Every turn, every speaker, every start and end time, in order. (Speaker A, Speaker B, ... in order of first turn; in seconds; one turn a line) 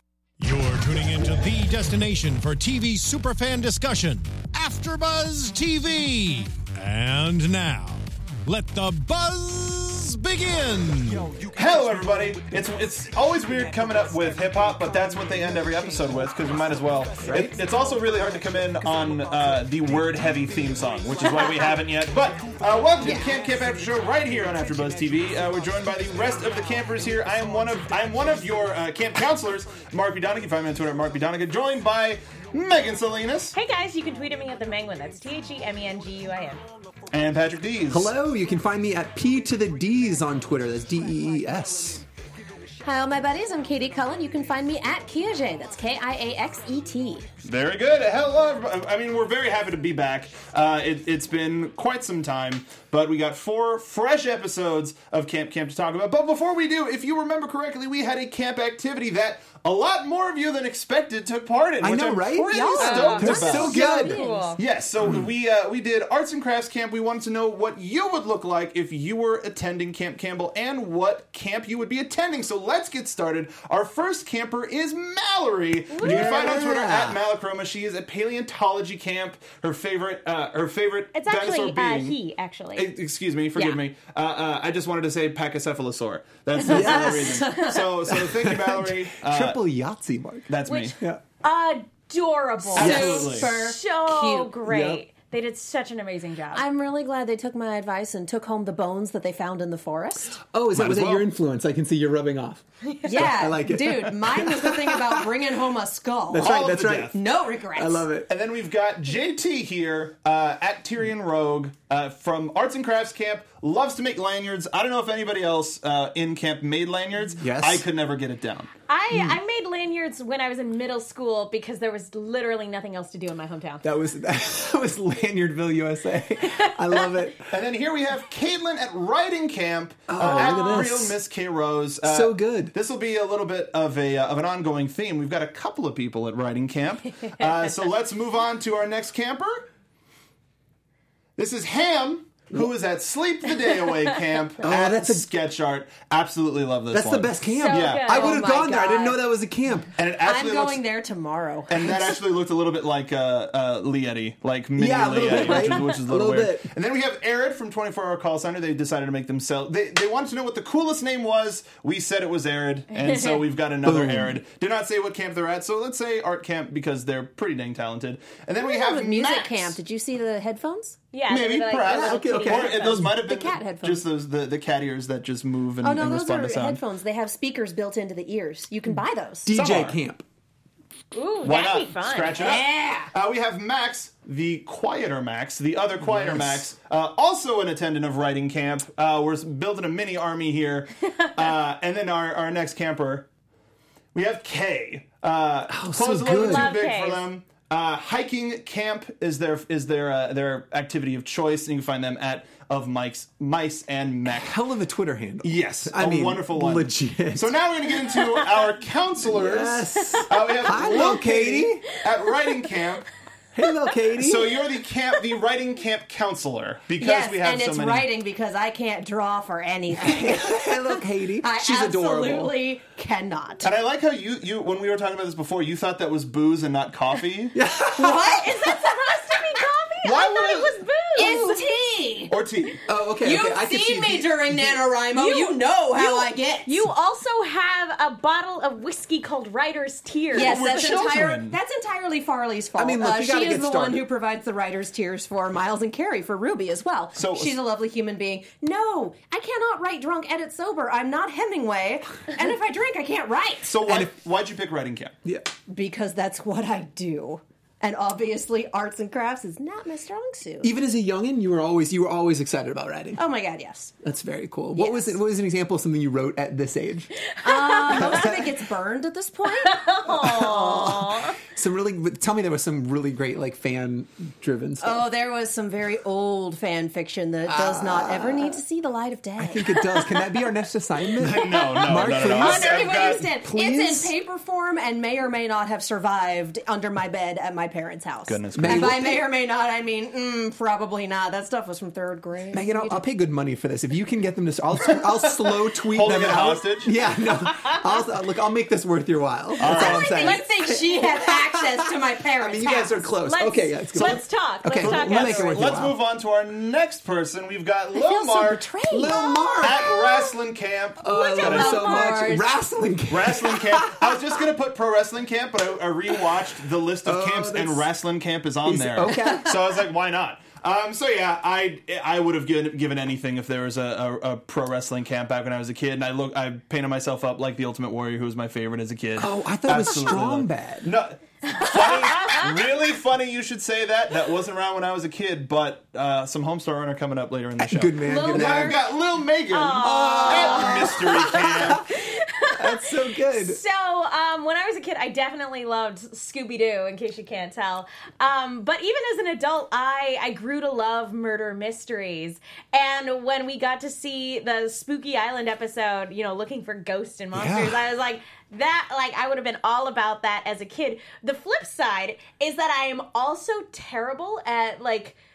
Speaker A: 0.4-11.3
Speaker B: 11.5-33.6
Speaker C: 17.2-17.6
Speaker D: 33.5-36.6
Speaker B: 37.1-38.1
Speaker C: 37.9-42.0
Speaker E: 42.8-47.2
Speaker B: 47.4-64.0
Speaker C: 61.8-64.2
Speaker E: 62.5-64.6
Speaker D: 62.8-64.6
Speaker B: 64.6-82.2
Speaker D: 75.9-76.5
Speaker C: 76.0-77.2
Speaker D: 81.1-83.0
Speaker B: 82.7-89.6
Speaker C: 86.6-91.2
Speaker E: 86.8-87.9
Speaker B: 90.5-91.0
Speaker D: 90.7-96.6
Speaker E: 92.7-94.5
Speaker B: 92.8-93.5
Speaker C: 92.8-93.3
Speaker C: 94.7-95.0
Speaker E: 96.5-100.4
Speaker C: 100.4-105.3
Speaker B: 100.7-101.2
Speaker D: 102.9-103.3
Speaker E: 103.0-106.5
Speaker C: 106.3-107.2
Speaker B: 106.4-107.2
Speaker E: 107.1-108.1
Speaker C: 107.7-108.3
Speaker B: 108.3-118.7
Speaker C: 117.3-117.8
Speaker D: 118.9-123.8
Speaker C: 119.1-119.4
Speaker C: 123.8-127.5
Speaker B: 127.5-139.7
Speaker C: 130.1-131.2
Speaker D: 130.2-130.8
Speaker C: 132.0-132.7
Speaker B: 141.4-148.1
Speaker C: 144.6-145.3
Speaker C: 146.9-149.9
Speaker D: 147.6-148.5
Speaker E: 148.1-149.2
Speaker B: 149.9-150.8
Speaker E: 150.2-152.2
Speaker B: 151.7-169.8
Speaker C: 154.8-156.7
Speaker D: 163.0-163.4
Speaker C: 163.8-164.4
Speaker E: 168.6-171.0
Speaker D: 171.1-172.6
Speaker B: 171.3-176.8
Speaker C: 171.8-173.2
Speaker E: 172.2-174.0
Speaker E: 175.8-179.5
Speaker C: 179.4-180.2
Speaker B: 179.5-180.0
Speaker D: 181.1-182.6
Speaker B: 181.4-193.3
Speaker E: 182.3-183.1
Speaker C: 186.0-186.7
Speaker B: 194.1-204.6
Speaker C: 195.7-196.8
Speaker D: 196.3-197.3
Speaker C: 204.3-207.6
Speaker B: 205.4-213.1
Speaker C: 209.2-211.9
Speaker C: 213.5-214.6
Speaker B: 214.2-218.1
Speaker E: 217.0-220.8
Speaker C: 220.0-222.5
Speaker E: 221.4-223.7
Speaker B: 223.6-227.6
Speaker C: 227.5-228.6
Speaker E: 227.9-229.6
Speaker D: 228.5-231.8
Speaker B: 230.0-230.7
Speaker E: 231.2-232.3
Speaker B: 232.3-232.8
Speaker C: 232.9-234.9
Speaker E: 233.2-236.7
Speaker D: 235.1-241.1
Speaker E: 240.3-253.8
Speaker B: 240.3-241.6
Speaker C: 242.7-244.0
Speaker B: 247.2-247.5
Speaker B: 253.6-255.1
Speaker C: 253.8-254.1
Speaker E: 255.7-260.7
Speaker C: 260.6-263.2
Speaker E: 263.2-263.9
Speaker C: 264.0-267.1
Speaker E: 264.7-265.1
Speaker D: 267.3-268.2
Speaker E: 267.4-270.0
Speaker C: 267.8-268.5
Speaker D: 269.5-271.4
Speaker C: 270.1-275.1
Speaker E: 274.8-280.3
Speaker C: 277.4-278.6
Speaker C: 279.4-284.1
Speaker B: 281.2-283.3
Speaker E: 281.5-293.0
Speaker B: 288.3-289.0
Speaker C: 288.6-289.2
Speaker C: 292.5-306.0
Speaker B: 295.4-296.9
Speaker B: 299.6-300.3
Speaker E: 299.6-303.1
Speaker D: 303.2-305.6
Speaker B: 304.8-308.6
Speaker E: 307.9-310.3
Speaker C: 308.9-309.9
Speaker B: 309.6-312.3
Speaker C: 311.0-314.4
Speaker E: 311.1-312.5
Speaker B: 313.1-341.8
Speaker C: 317.0-317.9
Speaker C: 318.6-319.5
Speaker E: 319.2-319.4
Speaker C: 329.2-330.9
Speaker D: 331.4-332.4
Speaker C: 337.6-338.8
Speaker D: 338.0-338.9
Speaker D: 339.5-365.2
Speaker C: 339.8-342.0
Speaker C: 342.5-343.6
Speaker C: 357.3-357.8